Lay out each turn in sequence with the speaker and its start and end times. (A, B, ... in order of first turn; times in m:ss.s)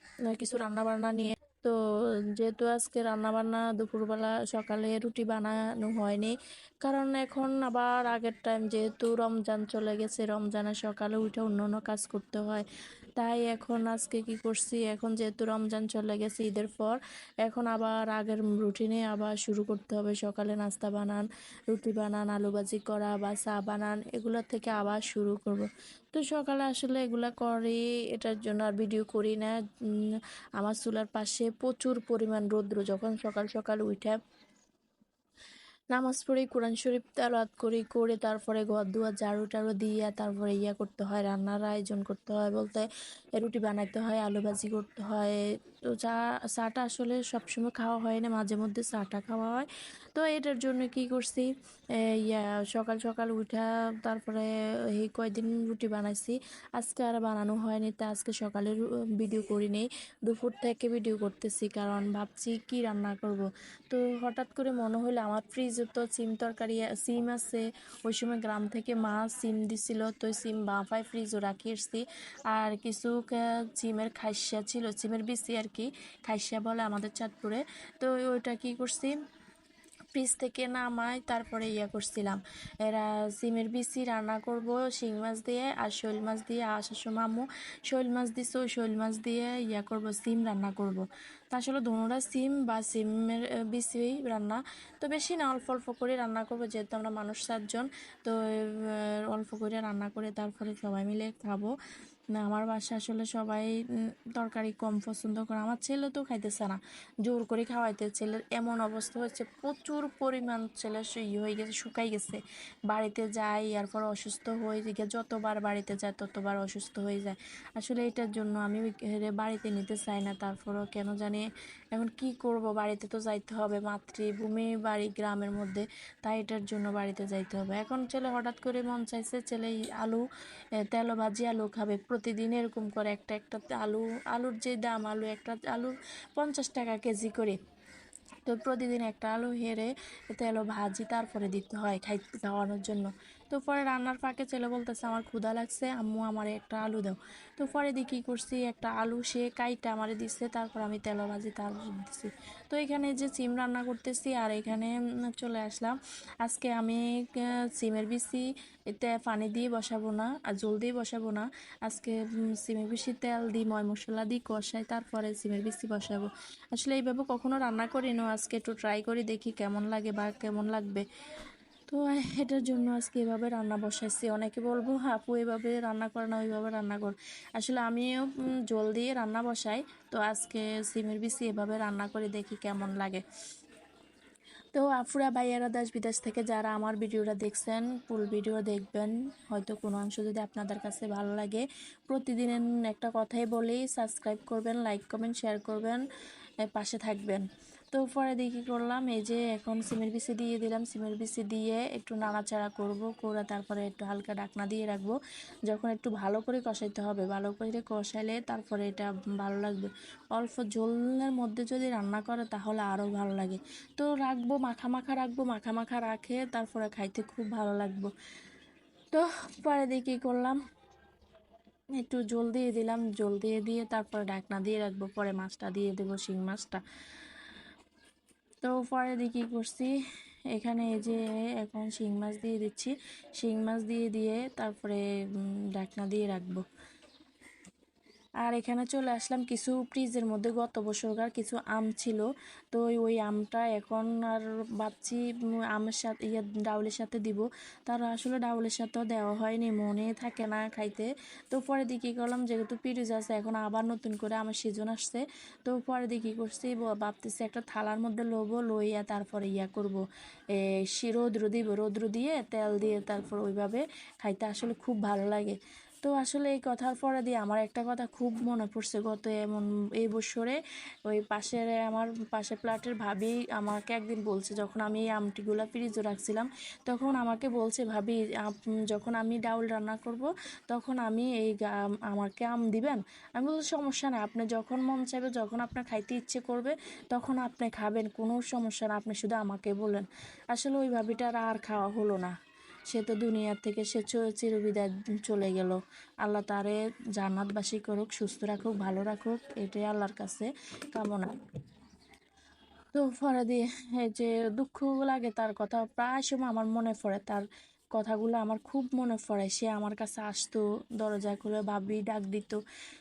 0:00.3-0:01.8 A
0:02.4-0:12.6 A
0:13.2-0:34.2 A
0:35.9-0:45.4 A
0:46.0-0:51.5 A
0:52.0-1:19.1 A
1:20.1-1:41.7 A
1:42.4-1:43.7 A
1:44.4-2:10.2 A
2:10.8-2:17.6 A
2:18.5-2:51.0 A
2:51.9-3:03.2 A
3:04.7-3:16.0 A
3:16.7-3:25.2 A
3:25.7-3:38.1 A
3:39.1-3:40.6 A
3:42.0-3:46.8 A
3:48.6-3:49.9 A
3:50.6-3:56.6 A
3:58.4-4:20.0 A
4:20.6-4:52.3 A
4:52.9-5:01.3 A
5:02.9-5:12.6 A